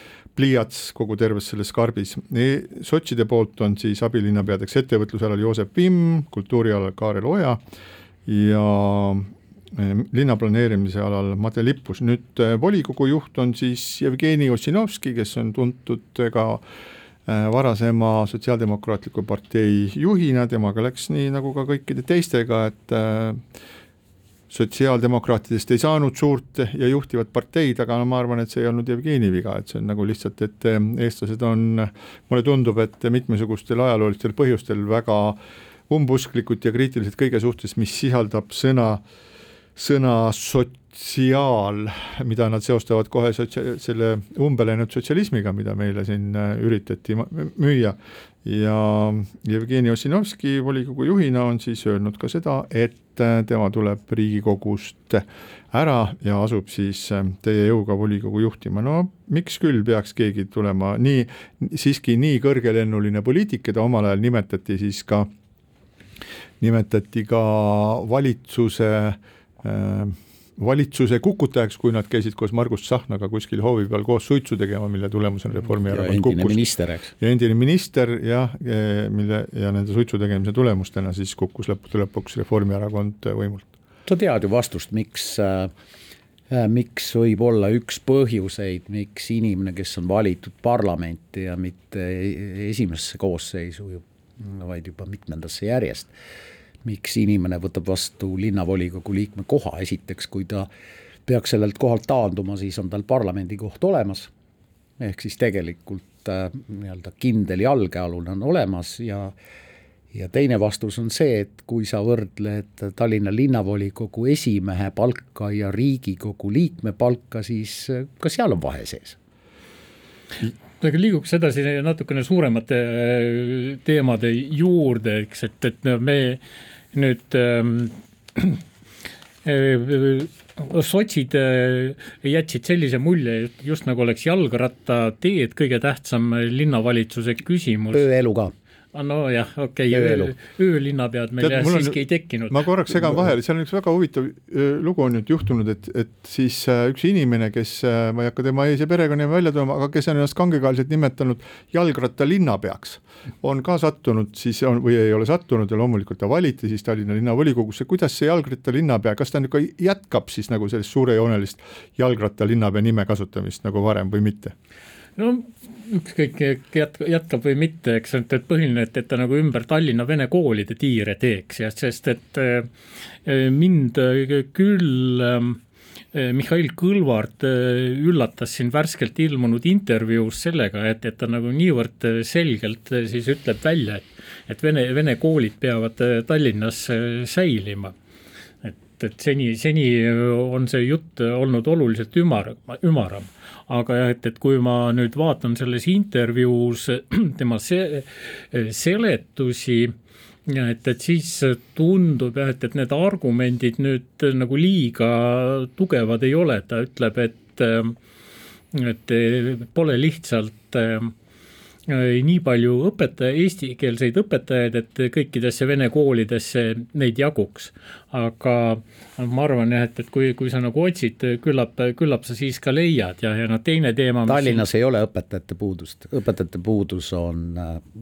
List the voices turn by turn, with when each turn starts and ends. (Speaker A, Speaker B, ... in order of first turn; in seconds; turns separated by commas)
Speaker A: 0.4-7.6, Speaker A: 8.3-16.6, Speaker A: 17.3-23.4, Speaker A: 24.5-39.0, Speaker A: 39.8-65.3, Speaker A: 66.6-76.6, Speaker B: 75.9-77.1, Speaker A: 77.2-83.7, Speaker B: 84.1-85.7, Speaker B: 86.5-96.1, Speaker B: 96.8-100.7, Speaker B: 101.3-104.3, Speaker B: 105.0-109.3, Speaker B: 110.1-119.2, Speaker C: 120.8-126.4, Speaker C: 126.9-128.6, Speaker C: 129.4-138.1, Speaker B: 137.9-138.5, Speaker C: 138.9-143.2, Speaker B: 139.9-140.3, Speaker A: 141.4-164.5, Speaker C: 165.2-172.7, Speaker C: 173.2-175.6, Speaker C: 176.1-187.9, Speaker C: 188.6-199.9, Speaker C: 200.5-208.0, Speaker C: 208.7-211.1, Speaker C: 211.9-224.7, Speaker B: 224.3-227.8